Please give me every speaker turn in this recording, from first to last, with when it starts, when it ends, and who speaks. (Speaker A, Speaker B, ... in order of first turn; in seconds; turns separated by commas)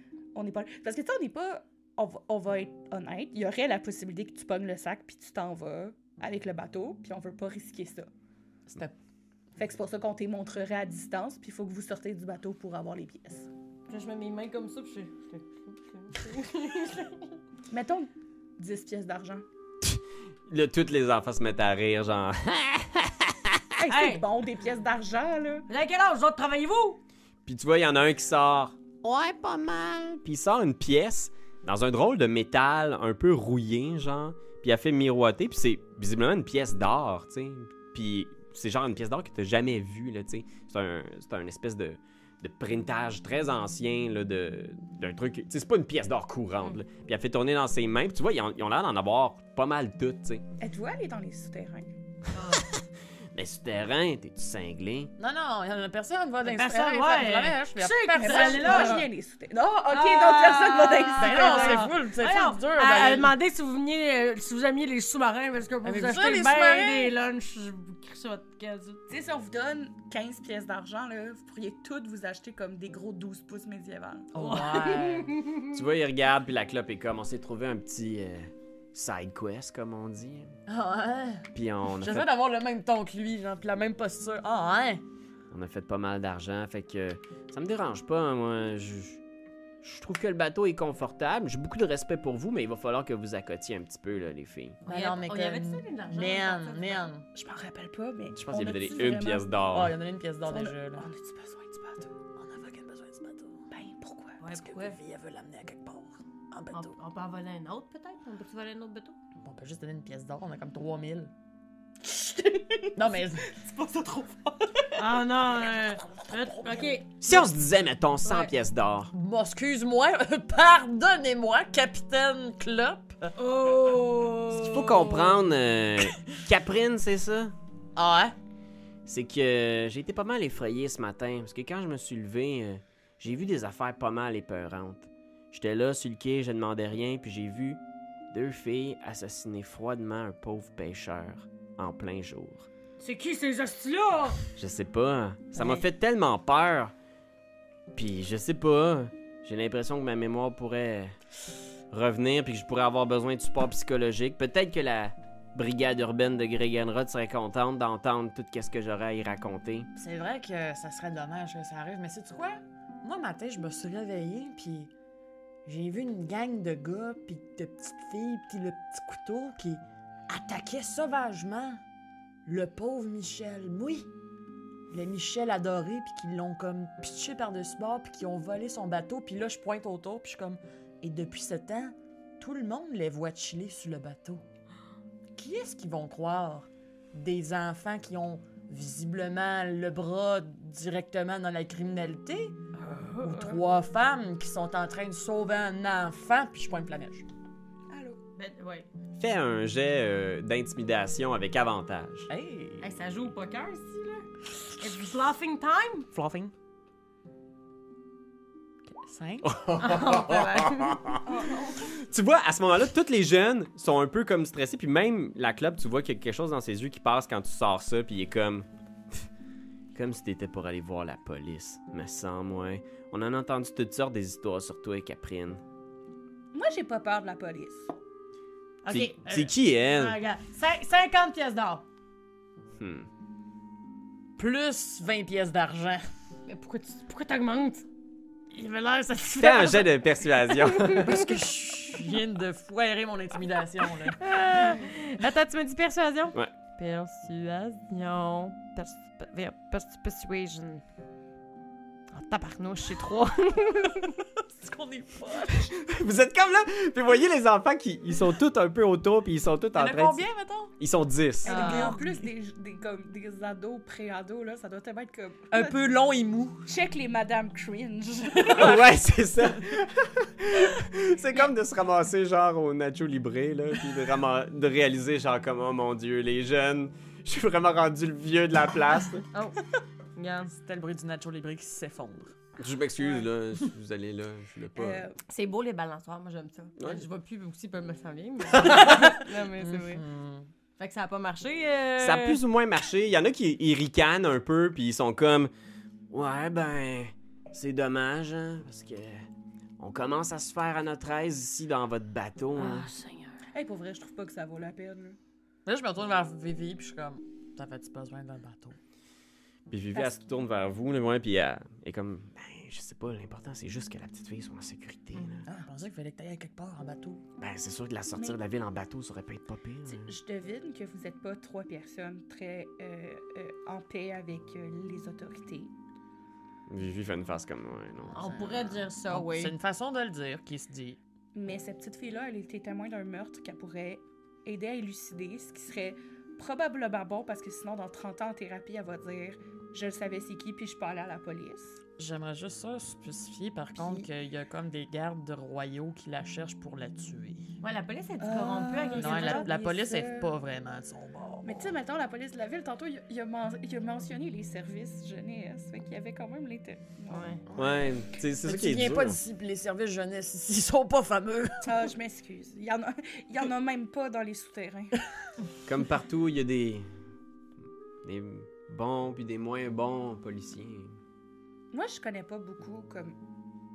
Speaker A: 0.3-8.1, Speaker B: 8.7-8.9, Speaker A: 9.6-13.5, Speaker C: 13.9-17.3, Speaker A: 17.7-19.4, Speaker D: 19.8-23.6, Speaker A: 23.8-25.7, Speaker C: 23.9-24.2, Speaker C: 25.7-27.0, Speaker D: 27.4-50.4, Speaker A: 50.6-51.9, Speaker C: 52.3-52.6, Speaker D: 52.5-52.8, Speaker D: 53.3-55.1, Speaker B: 55.2-59.0, Speaker C: 56.4-59.1, Speaker A: 58.2-61.9, Speaker C: 59.9-69.0, Speaker B: 61.1-63.3, Speaker B: 65.8-67.1, Speaker A: 69.1-74.3, Speaker B: 74.3-75.3, Speaker C: 74.3-75.7, Speaker D: 75.7-80.5, Speaker B: 80.7-85.0, Speaker D: 81.5-82.3, Speaker D: 85.5-89.2, Speaker D: 89.8-94.8, Speaker B: 94.8-97.2, Speaker C: 94.9-97.0, Speaker A: 97.3-99.6, Speaker D: 98.3-100.0, Speaker B: 99.7-101.1, Speaker A: 100.4-102.1, Speaker B: 102.3-103.6, Speaker A: 103.7-104.4, Speaker C: 104.4-105.0, Speaker B: 104.5-106.9, Speaker C: 106.7-109.2, Speaker B: 109.4-111.3, Speaker A: 112.0-114.5, Speaker B: 112.9-113.6, Speaker C: 114.9-117.1, Speaker B: 116.2-116.9, Speaker D: 117.2-119.1, Speaker C: 118.2-118.5, Speaker B: 119.1-123.3, Speaker C: 123.3-125.2, Speaker D: 124.5-127.5, Speaker B: 128.0-128.3, Speaker D: 129.1-137.8, Speaker D: 138.3-142.7, Speaker C: 143.0-144.4, Speaker D: 144.6-146.9, Speaker B: 145.6-145.8, Speaker D: 147.9-151.2, Speaker D: 151.9-159.9, Speaker B: 159.9-164.9, Speaker B: 165.6-171.8, Speaker B: 172.4-174.1, Speaker B: 174.9-184.4, Speaker B: 185.3-192.6, Speaker C: 192.8-193.6, Speaker B: 193.2-197.3, Speaker A: 197.9-198.2, Speaker C: 198.3-198.9, Speaker D: 199.2-202.3, Speaker B: 202.3-202.9, Speaker C: 202.8-206.1, Speaker B: 206.1-206.5, Speaker B: 208.9-209.6, Speaker D: 209.4-211.2, Speaker C: 209.8-211.1, Speaker A: 211.2-211.9, Speaker D: 212.0-218.7, Speaker D: 219.9-225.6, Speaker A: 226.5-227.9, Speaker C: 228.8-231.8, Speaker D: 228.9-230.2, Speaker D: 232.8-233.1, Speaker B: 234.4-236.1, Speaker C: 236.5-237.8, Speaker C: 238.5-241.3, Speaker D: 239.3-241.2, Speaker B: 241.0-244.2, Speaker C: 244.2-250.8, Speaker C: 252.1-254.2, Speaker B: 253.9-255.7, Speaker D: 255.7-260.2, Speaker B: 259.7-260.7, Speaker D: 260.8-261.8, Speaker C: 261.4-262.0, Speaker A: 261.4-265.8, Speaker B: 261.5-262.1, Speaker B: 265.5-266.6, Speaker A: 266.6-268.9, Speaker D: 268.4-279.2, Speaker C: 279.3-279.6, Speaker C: 280.1-280.5, Speaker B: 280.5-282.4, Speaker D: 282.6-285.0, Speaker A: 284.8-285.2, Speaker C: 285.3-290.0, Speaker D: 286.8-287.0, Speaker D: 288.5-289.0, Speaker B: 288.8-290.5, Speaker C: 290.8-292.4, Speaker D: 292.0-295.5, Speaker D: 296.1-299.2, Speaker D: 299.8-302.9, Speaker C: 302.6-303.3, Speaker A: 303.5-305.2, Speaker B: 305.6-308.8, Speaker D: 309.7-315.5, Speaker B: 315.5-317.2, Speaker D: 317.4-320.1, Speaker A: 318.1-318.4, Speaker A: 319.9-325.7, Speaker D: 326.7-328.8, Speaker C: 328.1-329.5, Speaker B: 329.1-331.0, Speaker A: 331.3-341.8, Speaker B: 342.0-347.5, Speaker A: 343.7-344.1, Speaker C: 347.6-349.5, Speaker A: 348.2-350.3, Speaker B: 348.9-351.6, Speaker A: 351.4-357.4, Speaker C: 357.1-357.4, Speaker D: 357.5-359.2, Speaker B: 358.4-361.8, Speaker A: 361.6-365.0, Speaker D: 365.6-366.9, Speaker D: 368.0-370.9, Speaker A: 371.7-373.2